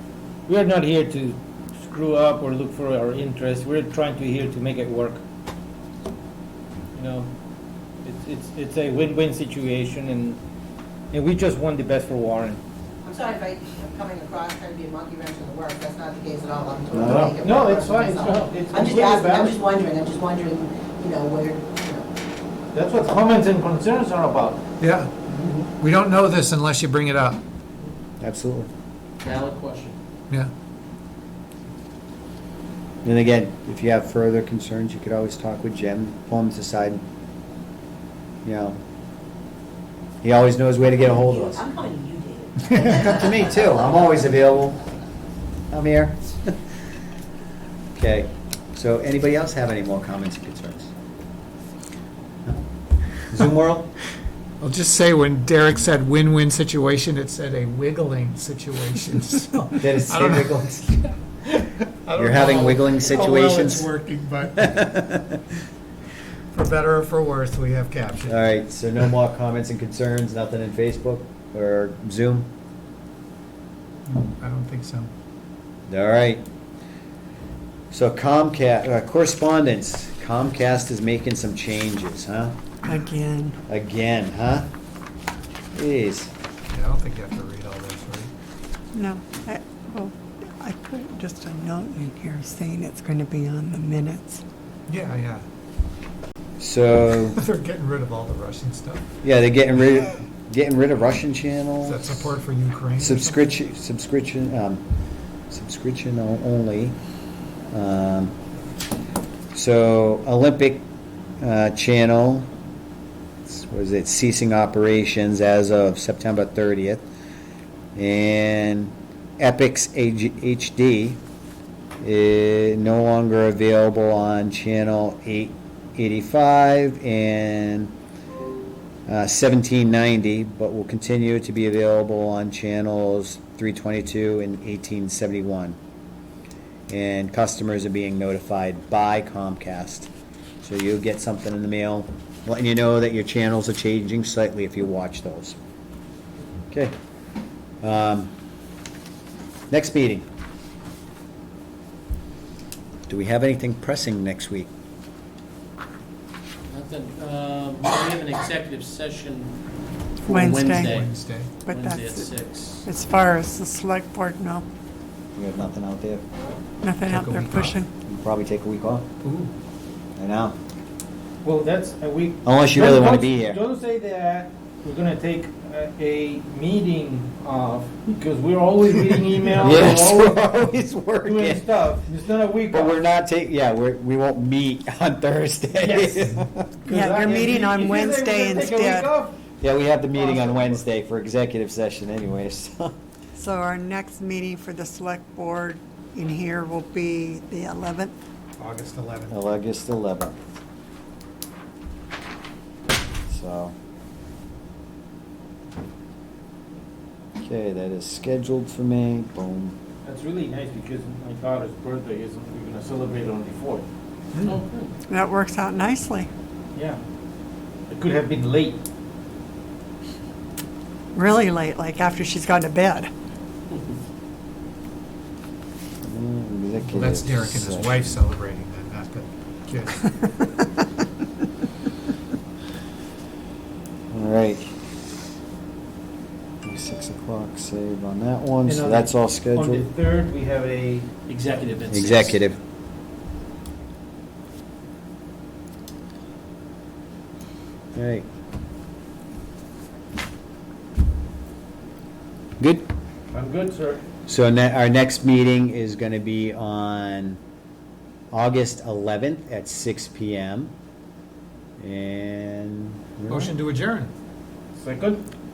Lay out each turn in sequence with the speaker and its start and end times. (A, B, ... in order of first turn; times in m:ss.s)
0:00.5-0:05.2 A
0:06.9-0:07.3 A
0:08.0-0:10.4 A
0:11.1-0:12.6 A
0:13.0-0:22.1 B
0:16.9-0:17.3 C
0:17.0-0:19.6 A
0:22.7-0:24.6 A
0:24.8-0:27.4 D
0:28.2-0:28.7 C
0:29.2-0:30.0 E
0:33.0-0:37.0 C
0:38.4-0:38.8 C
0:40.2-0:41.6 C
0:40.8-0:43.4 B
0:42.7-0:44.8 C
0:45.7-0:46.5 C
0:47.9-0:50.9 C
0:53.3-0:53.9 C
0:54.6-1:00.6 D
0:59.8-1:01.1 C
1:01.4-1:04.8 D
1:02.2-1:03.9 C
1:04.6-1:05.4 C
1:06.5-1:08.4 D
1:08.3-1:12.5 C
1:14.1-1:15.1 D
1:15.9-1:16.4 C
1:17.9-1:22.5 C
1:22.8-1:23.6 F
1:23.7-1:24.7 C
1:25.7-1:26.3 C
1:26.7-1:28.3 D
1:28.9-1:34.4 F
1:34.9-1:35.4 D
1:36.6-1:37.4 C
1:37.3-1:39.0 D
1:39.2-1:42.3 C
1:41.8-1:43.3 D
1:43.0-1:44.8 C
1:45.5-1:46.9 C
1:47.7-1:48.3 C
1:49.5-1:50.8 C
1:51.4-1:52.5 C
1:53.4-1:57.1 C
1:57.9-2:01.2 C
2:02.0-2:07.9 C
2:09.1-2:15.8 C
2:16.9-2:20.1 C
2:20.6-2:25.6 C
2:27.8-2:28.3 C
2:29.7-2:30.2 C
2:33.1-2:34.7 C
2:36.7-2:39.6 E
2:40.2-2:42.8 E
2:40.3-2:40.9 F
2:40.8-2:41.5 D
2:41.6-2:42.3 F
2:42.8-2:44.6 F
2:45.4-2:46.2 C
2:46.8-2:47.9 F
2:47.1-2:47.8 D
2:48.0-2:49.1 C
2:49.2-2:49.5 D
2:50.2-2:50.6 C
2:51.4-3:00.5 A
2:52.4-2:53.6 C
2:59.6-3:01.6 C
3:01.2-3:02.9 A
3:02.7-3:06.8 C
3:05.7-3:09.4 A
3:06.9-3:09.1 F
3:09.6-3:12.9 C
3:10.2-3:10.7 A
3:13.3-3:18.2 F
3:18.6-3:19.3 D
3:19.3-3:20.4 C
3:23.3-3:23.7 C
3:27.4-3:29.7 C
3:30.0-3:33.8 A
3:34.4-3:34.9 E
3:35.1-3:36.3 F
3:36.7-3:37.0 A
3:37.9-3:38.8 A
3:41.1-3:43.1 F
3:46.0-3:48.0 C
3:46.9-3:50.2 D
3:54.1-3:54.7 C
3:56.6-3:59.9 C
3:58.6-4:01.1 A
4:01.3-4:02.4 E
4:01.9-4:02.6 C
4:07.9-4:08.3 C
4:12.6-4:12.9 C
4:13.3-4:14.0 A
4:14.3-4:17.4 C
4:18.3-4:20.7 C
4:21.8-4:23.5 C
4:23.3-4:24.1 D
4:24.7-4:25.2 A